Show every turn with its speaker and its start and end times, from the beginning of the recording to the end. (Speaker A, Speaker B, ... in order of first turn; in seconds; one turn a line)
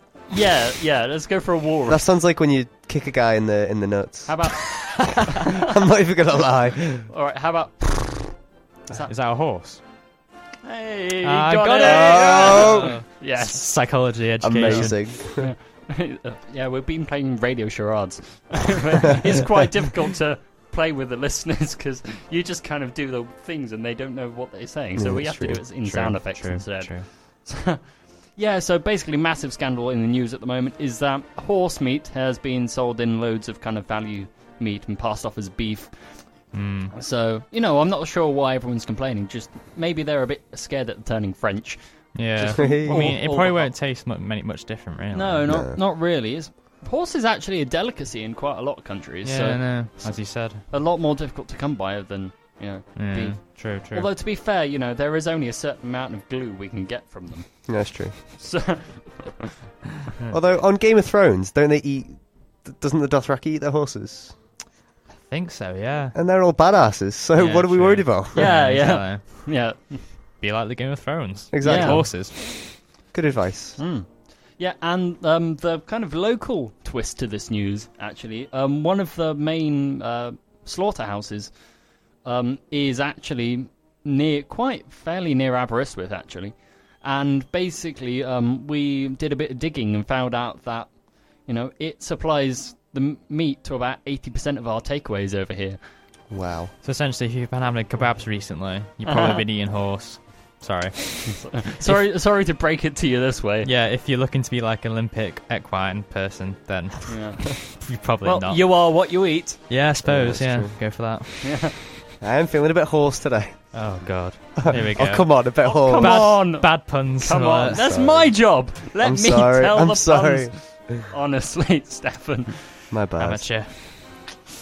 Speaker A: 0.3-2.0
Speaker B: 1.9-4.5
Speaker A: 4.2-5.4
Speaker B: 5.5-7.1
Speaker A: 7.1-9.1
Speaker C: 9.1-9.8
Speaker A: 10.6-14.1
Speaker C: 11.2-15.3
Speaker B: 11.8-12.9
Speaker B: 14.4-15.5
Speaker A: 14.6-43.7
Speaker B: 25.0-25.6
Speaker C: 25.7-27.1
Speaker C: 36.5-36.9
Speaker C: 42.1-45.5
Speaker B: 42.6-43.1
Speaker A: 45.1-59.5
Speaker B: 45.5-45.8
Speaker C: 49.2-50.6
Speaker C: 53.0-54.1
Speaker B: 57.7-58.1
Speaker B: 60.3-64.4
Speaker C: 65.2-66.2
Speaker B: 66.1-68.6
Speaker C: 67.4-69.8
Speaker A: 68.3-70.1
Speaker C: 70.4-72.3
Speaker B: 71.5-72.5
Speaker A: 71.6-72.1
Speaker B: 73.1-73.8
Speaker A: 73.8-81.5
Speaker A: 82.2-95.8
Speaker B: 96.3-96.7
Speaker C: 96.8-102.1
Speaker A: 99.1-99.4
Speaker A: 101.4-103.7
Speaker C: 103.6-109.1
Speaker A: 107.1-109.7
Speaker C: 109.7-111.8
Speaker B: 110.0-110.8
Speaker A: 111.4-111.8
Speaker B: 112.2-114.0
Speaker C: 113.7-117.8
Speaker B: 114.6-116.4
Speaker A: 115.6-122.8
Speaker B: 117.7-120.9
Speaker B: 122.9-123.5
Speaker C: 123.2-124.4